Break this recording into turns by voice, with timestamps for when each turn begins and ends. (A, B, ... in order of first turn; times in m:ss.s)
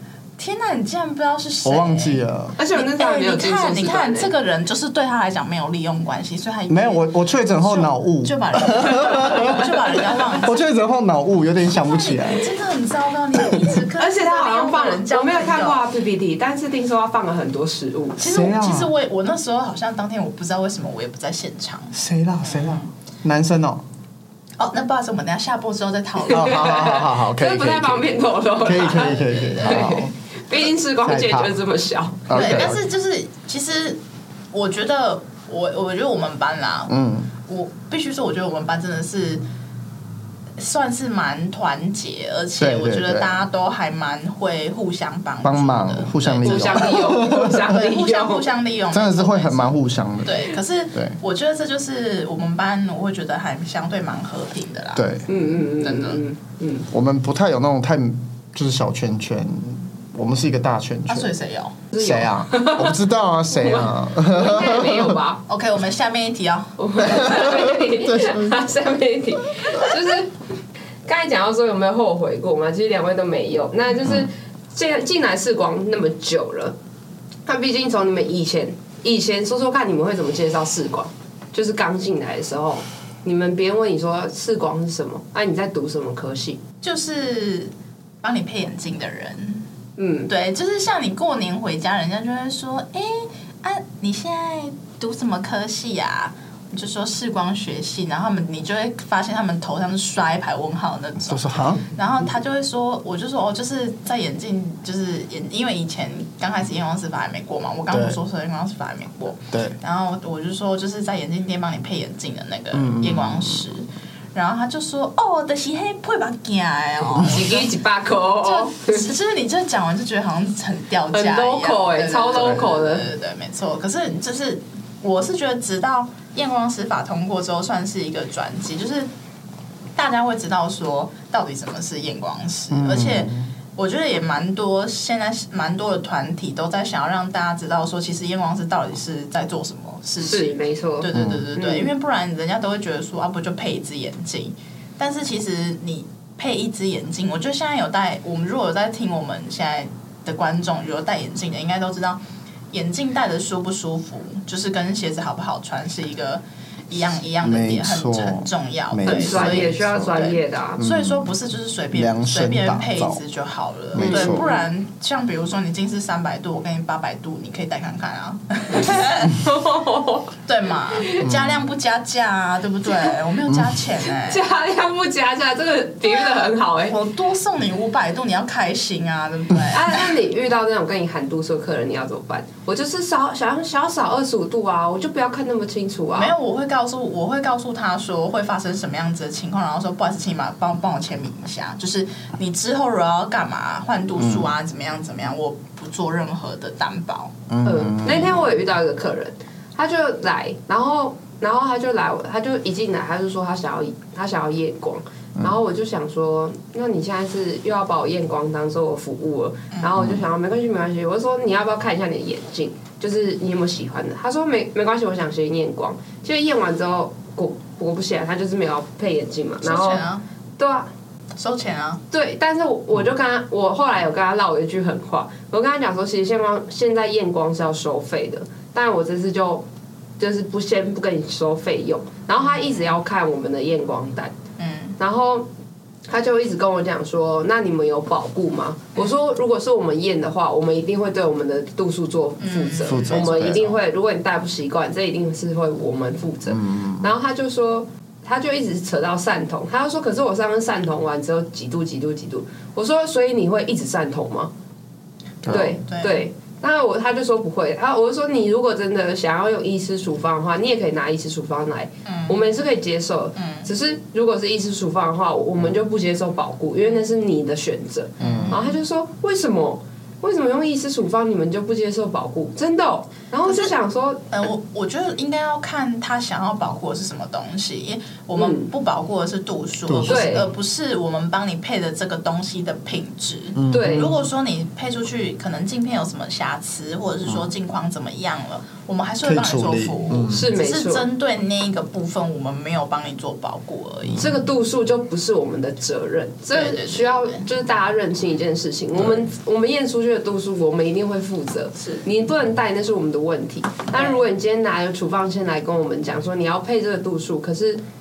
0:00.4-0:10.5 A
0:01.6-0:02.6 B
0:02.6-0:04.3 C
0:06.7-0:12.5 B
0:11.7-0:15.9 A
0:14.0-0:18.2 C
0:18.2-0:22.9 A
0:18.2-0:18.9 B
0:21.9-0:23.8 B
0:24.6-0:26.9 A
0:26.3-0:30.1 B
0:26.3-0:32.7 C
0:28.9-0:30.0 A
0:31.0-0:31.6 B
0:32.3-0:32.8 B
0:32.3-0:34.0 A
0:34.5-0:36.9 A
0:36.9-0:37.3 B
0:37.5-0:39.4 A
0:40.6-0:55.1 A
0:42.6-0:43.4 B
0:45.4-0:47.7 B
0:46.4-0:48.5 C
0:48.9-0:51.2 B
0:55.0-0:55.3 B
0:55.3-0:56.9 C
0:55.8-0:56.2 A
0:56.9-1:01.3 B
1:01.1-1:01.8 A
1:01.9-1:05.4 C
1:02.0-1:05.2 B
1:05.5-1:07.6 A
1:06.8-1:10.3 C
1:07.2-1:08.6 B
1:11.1-1:16.8 C
1:17.5-1:26.6 C
1:26.8-1:29.7 A
1:30.0-1:30.3 C
1:30.3-1:57.7 A
1:41.3-1:41.8 B
1:47.9-1:48.2 B
1:52.7-1:53.6 B
1:57.2-1:59.1 C
1:58.4-2:09.1 A
2:01.1-2:03.1 C
2:10.0-2:32.2 A
2:12.7-2:13.5 B
2:20.2-2:21.9 C
2:21.1-2:21.5 B
2:32.7-2:49.4 A
2:37.4-2:40.2 B
2:39.0-2:40.8 C
2:40.8-2:41.3 B
2:41.9-2:43.2 B
2:43.9-2:44.5 B
2:44.0-2:44.7 C
2:49.2-2:50.3 C
2:50.5-2:54.4 A
2:50.9-2:51.2 C
2:51.2-2:51.7 B
2:54.1-2:57.0 C
2:56.0-3:00.2 A
2:59.7-3:06.3 C
3:06.2-3:17.4 A
3:14.2-3:14.5 B
3:17.5-3:18.4 B
3:17.6-3:40.0 C
3:30.0-3:30.2 B
3:39.6-3:40.2 A
3:40.6-3:40.9 C
3:41.4-3:42.0 A
3:42.1-3:49.7 C
3:50.2-3:54.3 C
3:52.4-3:52.9 A
3:54.6-3:55.0 A
3:55.0-3:55.5 C
3:56.1-4:14.5 C
4:02.4-4:03.4 A
4:02.8-4:03.8 B
4:06.5-4:07.1 B
4:15.4-4:15.8 B
4:15.4-4:16.2 A
4:15.5-4:34.2 C
4:22.0-4:22.4 A
4:23.4-4:23.7 A
4:28.2-4:28.6 B
4:28.2-4:28.7 A
4:33.5-4:33.7 A
4:34.3-4:54.4 A
4:38.4-4:38.7 C
4:39.9-4:40.5 B
4:40.1-4:40.4 C
4:43.6-4:44.2 B
4:43.7-4:44.2 C
4:49.2-4:50.5 B
4:50.3-4:51.1 C
4:54.2-5:07.8 C
4:56.5-4:57.5 A